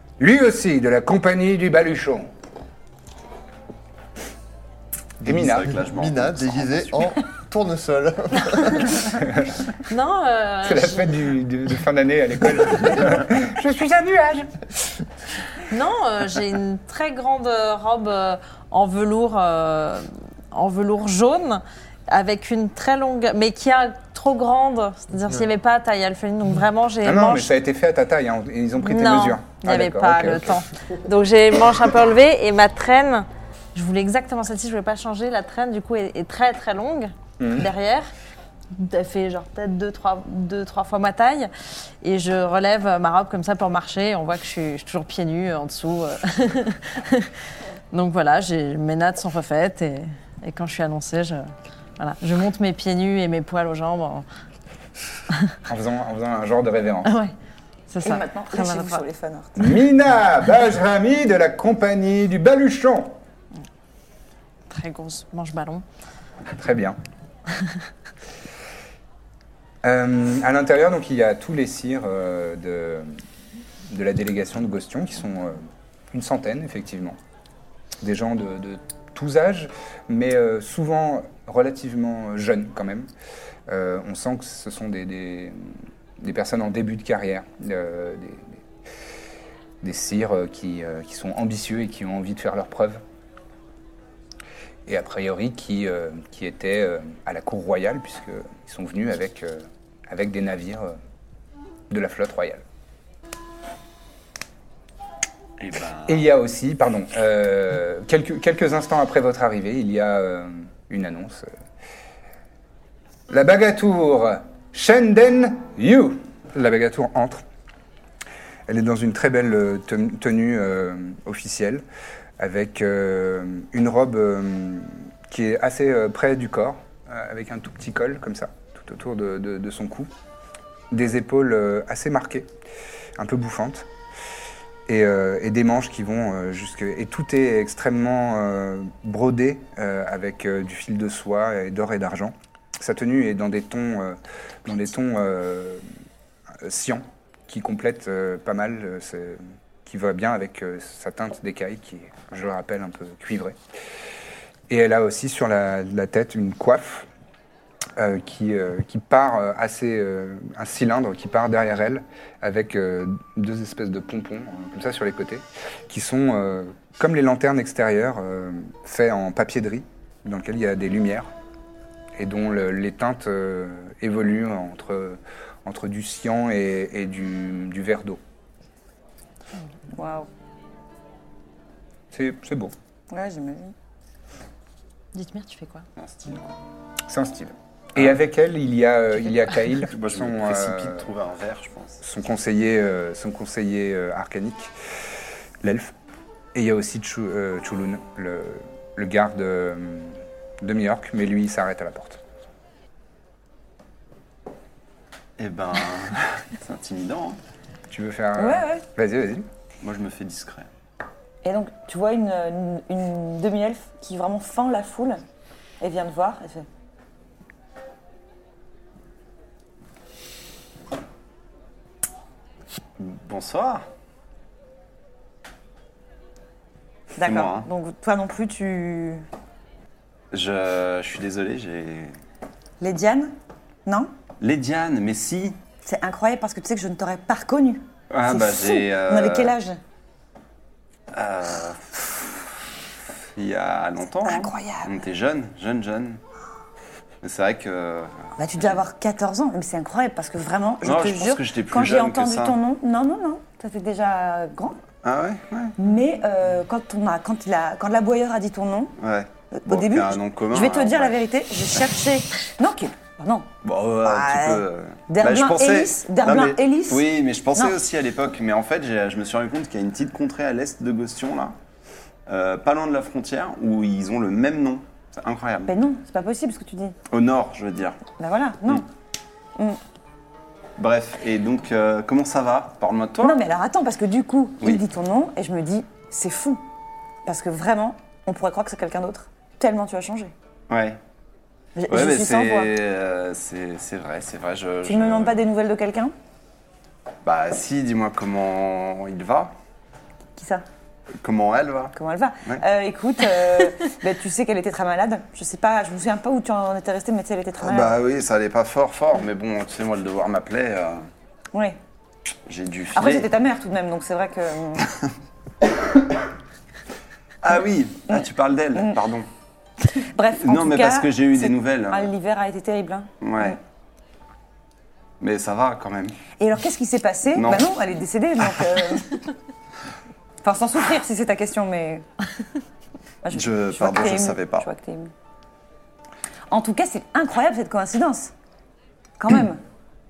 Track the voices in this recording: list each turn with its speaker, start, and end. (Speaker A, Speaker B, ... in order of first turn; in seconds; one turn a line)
Speaker A: 0.2-2.3
Speaker A: 5.2-5.8
Speaker B: 5.2-7.2
Speaker C: 5.3-9.1
Speaker A: 9.2-9.5
Speaker D: 9.9-11.2
Speaker A: 10.6-14.5
Speaker D: 15.7-27.5
Speaker A: 27.0-30.6
Speaker D: 28.8-38.1
Speaker A: 37.4-37.7
Speaker D: 38.7-41.5
Speaker D: 42.0-47.3
Speaker D: 47.9-54.3
Speaker A: 55.7-57.1
Speaker D: 57.0-57.3
Speaker D: 57.9-59.0
Speaker E: 58.0-59.7
Speaker A: 59.6-63.2
Speaker D: 64.7-65.8
Speaker A: 66.5-67.0
Speaker A: 69.8-73.2
Speaker A: 73.9-77.2
Speaker A: 78.0-83.1
Speaker A: 83.7-85.6
Speaker A: 86.2-88.6
Speaker A: 89.8-93.0
Speaker A: 94.9-101.0
Speaker A: 101.9-102.6
Speaker B: 105.6-106.2
Speaker A: 106.1-111.5
Speaker A: 113.3-117.4
Speaker A: 118.7-121.8
Speaker A: 122.4-130.1
Speaker A: 130.9-132.5
Speaker A: 133.2-133.9
Speaker A: 134.9-145.8
Speaker A: 146.6-153.6
Speaker A: 154.7-157.1
Speaker A: 158.0-171.3
Speaker A: 172.2-178.2
Speaker E: 179.9-180.3
Speaker A: 182.1-182.7
Speaker E: 183.1-183.7
Speaker D: 185.1-185.9
Speaker B: 186.0-186.6
Speaker A: 187.1-191.1
Speaker B: 189.8-192.0
Speaker A: 192.0-194.7
Speaker A: 195.6-195.9
Speaker A: 196.5-202.2
Speaker B: 205.4-207.4
Speaker A: 207.9-209.5
Speaker E: 208.4-208.8
Speaker B: 209.8-210.7
Speaker E: 211.4-215.2
Speaker E: 215.8-216.7
Speaker B: 223.0-223.8
Speaker E: 227.2-229.3
Speaker B: 227.2-227.7
Speaker B: 230.3-232.2
Speaker E: 232.8-233.3
Speaker E: 233.9-234.1
Speaker B: 234.4-235.6
Speaker E: 235.8-239.8
Speaker B: 238.1-239.6
Speaker B: 241.1-242.5
Speaker B: 243.3-246.2
Speaker E: 244.2-244.9
Speaker B: 247.2-248.8
Speaker E: 248.4-254.8
Speaker B: 250.8-252.6
Speaker B: 255.0-255.8
Speaker E: 255.8-258.9
Speaker B: 259.0-261.2
Speaker E: 259.5-263.5
Speaker B: 263.6-271.6
Speaker E: 264.1-267.0
Speaker B: 272.3-275.7
Speaker E: 275.7-277.0
Speaker B: 277.1-278.0
Speaker E: 278.2-278.9
Speaker B: 280.8-283.4
Speaker E: 283.2-286.6
Speaker E: 287.3-290.3
Speaker B: 290.7-291.0
Speaker E: 291.8-292.7
Speaker B: 291.9-295.4
Speaker E: 294.9-296.1
Speaker B: 297.2-299.5
Speaker E: 300.4-300.6
Speaker B: 301.2-302.6
Speaker E: 301.9-307.9
Speaker B: 307.6-311.1
Speaker E: 311.5-311.8
Speaker B: 312.5-313.3
Speaker E: 312.9-314.9
Speaker B: 317.4-319.3
Speaker E: 320.0-323.6
Speaker B: 320.4-322.1
Speaker B: 323.2-323.6
Speaker B: 325.2-326.2
Speaker E: 326.4-329.2
Speaker B: 327.4-327.7
Speaker E: 330.4-332.1
Speaker E: 333.2-335.1
Speaker B: 333.3-334.7
Speaker E: 336.5-338.3
Speaker E: 339.2-339.6